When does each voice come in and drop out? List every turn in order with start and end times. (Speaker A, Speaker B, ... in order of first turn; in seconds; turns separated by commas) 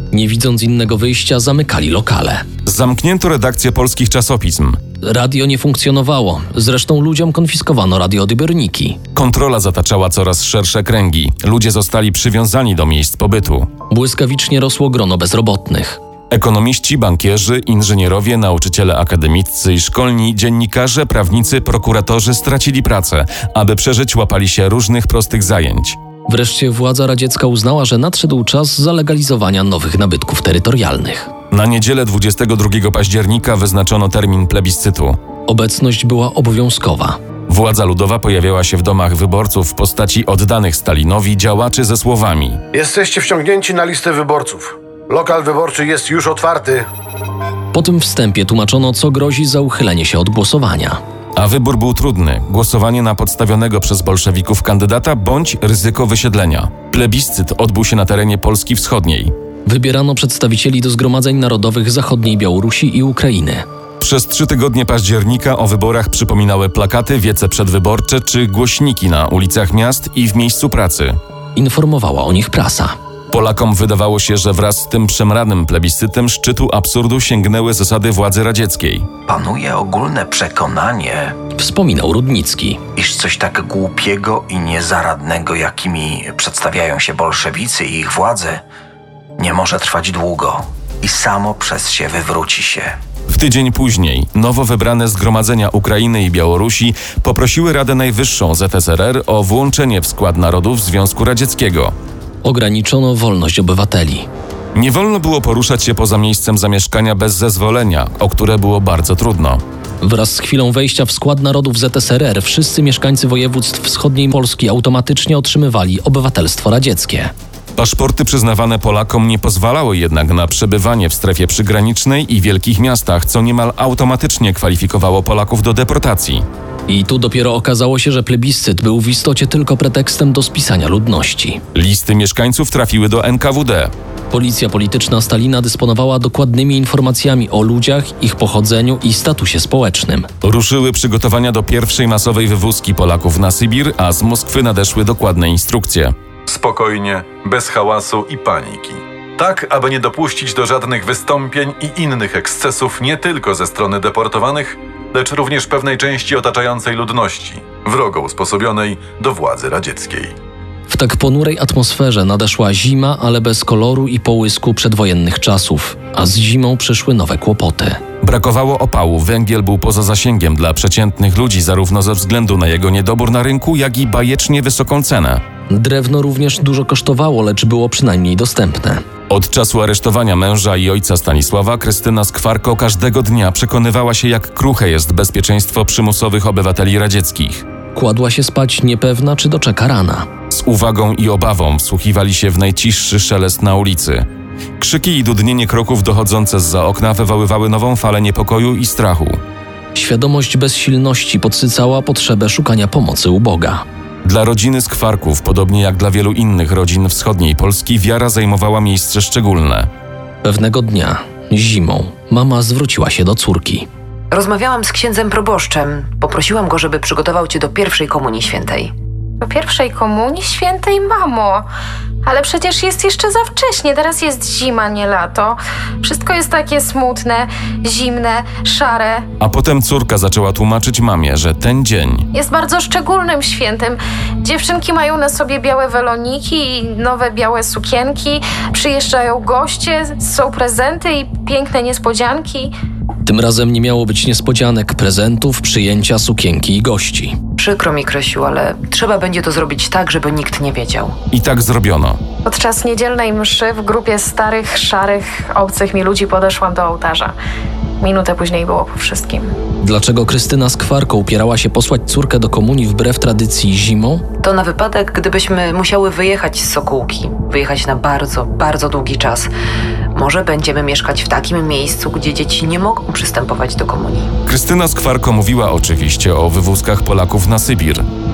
Speaker A: 0.1-2.5, Speaker B: 2.6-4.8, Speaker A: 5.0-9.0, Speaker B: 9.1-13.7, Speaker A: 13.9-16.0, Speaker B: 16.3-26.0, Speaker A: 26.3-31.3, Speaker B: 31.5-35.2, Speaker A: 35.5-37.2, Speaker B: 37.5-42.6, Speaker C: 42.7-46.9, Speaker A: 47.7-51.0, Speaker B: 51.4-59.3, Speaker A: 59.6-63.6, Speaker B: 64.0-71.2, Speaker A: 71.5-72.9, Speaker B: 73.3-79.1, Speaker D: 79.3-81.3, Speaker A: 81.5-82.8, Speaker D: 83.0-88.6, Speaker D: 89.4-93.0, Speaker B: 93.3-101.9, Speaker A: 102.4-104.3, Speaker B: 104.7-109.6, Speaker A: 110.0-117.3, Speaker B: 117.8-126.4, Speaker A: 126.9-131.6, Speaker B: 131.7-133.9, Speaker A: 134.3-140.3, Speaker B: 140.4-146.1, Speaker E: 146.5-160.3, Speaker A: 160.9-168.0, Speaker B: 168.2-175.4, Speaker A: 175.7-179.0, Speaker B: 179.3-187.6, Speaker A: 187.9-190.3, Speaker B: 190.5-194.2, Speaker B: 194.8-199.4, Speaker A: 199.9-203.8, Speaker B: 204.2-209.9, Speaker A: 210.4-213.9, Speaker F: 214.3-218.9, Speaker G: 219.4-221.7, Speaker G: 222.2-229.2, Speaker B: 229.4-232.2, Speaker G: 232.3-242.7, Speaker A: 243.2-247.4, Speaker F: 247.6-251.2, Speaker B: 251.3-252.2, Speaker G: 252.4-257.3, Speaker G: 258.0-259.5, Speaker A: 259.8-264.2, Speaker F: 264.4-269.5, Speaker F: 270.1-274.3, Speaker B: 274.4-278.1